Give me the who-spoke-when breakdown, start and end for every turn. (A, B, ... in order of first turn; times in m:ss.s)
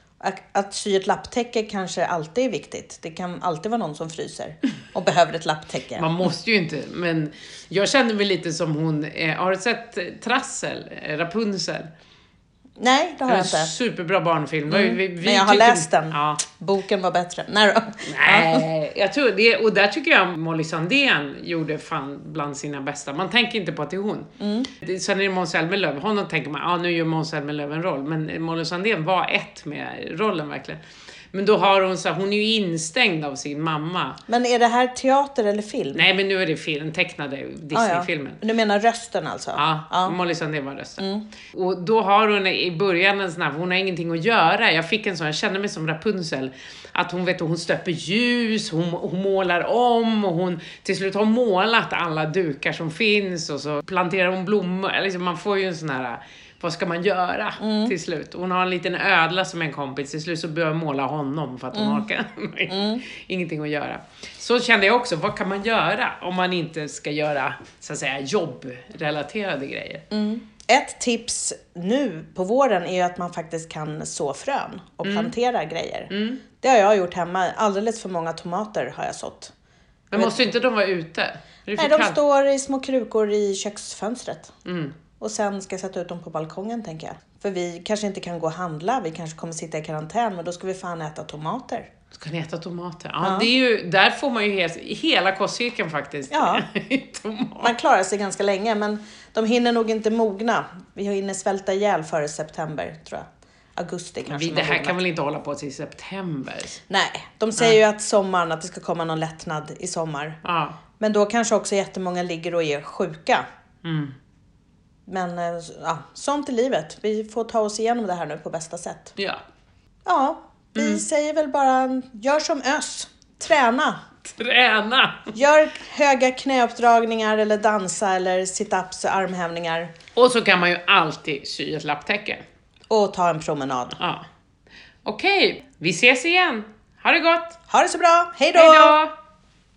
0:00.2-0:06.0 A
0:06.0-0:11.9 B
0:12.8-0:13.7 A
0:13.3-0:16.4 B
0:14.7-0:18.6 A
0:18.0-0:30.8 B
0:24.4-0:24.7 A
0:31.3-0:34.2 B
0:34.3-0:36.0 A
0:35.9-0:38.4 B
0:37.7-0:40.2 A
0:39.6-1:10.0 B
0:41.0-0:41.3 A
0:57.6-0:57.9 A
1:01.7-1:02.0 A
1:02.7-1:03.0 A
1:10.1-1:19.5 A
1:15.0-1:15.3 B
1:16.1-1:16.4 B
1:20.1-1:22.2 B
1:21.8-1:24.5 A
1:24.6-1:24.9 B
1:25.2-1:31.9 A
1:32.1-1:37.7 B
1:33.2-1:33.5 A
1:36.3-1:36.6 A
1:37.6-1:45.0 A
1:44.3-1:46.8 B
1:46.9-1:50.4 A
1:50.4-1:50.8 B
1:51.0-1:53.4 A
1:53.8-1:54.1 B
1:55.1-1:59.1 A
1:59.2-1:59.4 B
2:00.0-2:04.0 A
2:00.7-2:01.0 B
2:04.2-2:05.3 B
2:05.3-2:09.9 A
2:10.2-2:12.4 B
2:12.9-2:14.0 A
2:14.0-2:14.2 B
2:15.0-2:17.6 B
2:17.7-2:19.0 A
2:18.5-2:19.1 B